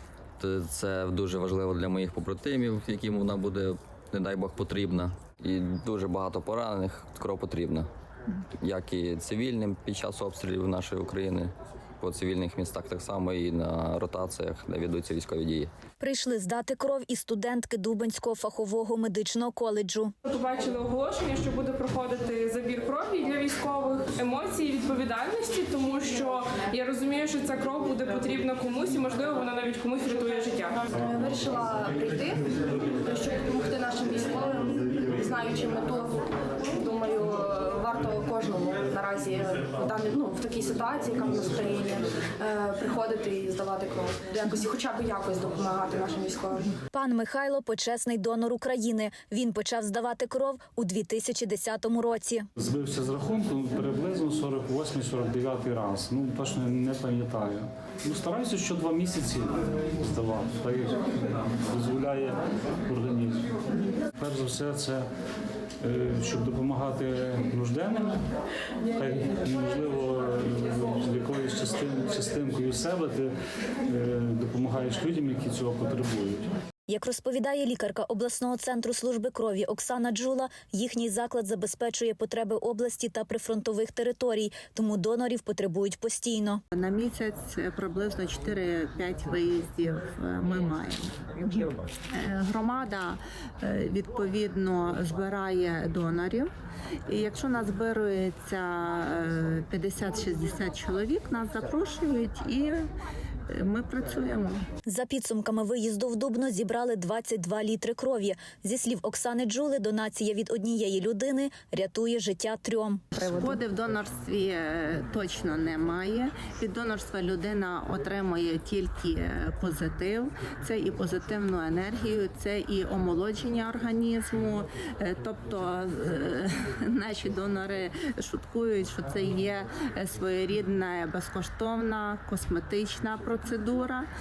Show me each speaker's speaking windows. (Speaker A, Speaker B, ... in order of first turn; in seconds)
Speaker A: 0.4-7.9, 8.6-15.7
Speaker B: 16.0-20.1, 46.9-52.5, 76.9-86.6, 104.8-113.0
Speaker C: 20.2-30.8
Speaker D: 30.9-46.7
Speaker E: 52.6-61.0, 61.7-63.5, 64.2-65.0, 65.8-68.2, 68.9-73.3, 73.8-76.5
Speaker F: 86.7-96.5, 97.1-102.8, 103.5-104.6, 113.2-134.1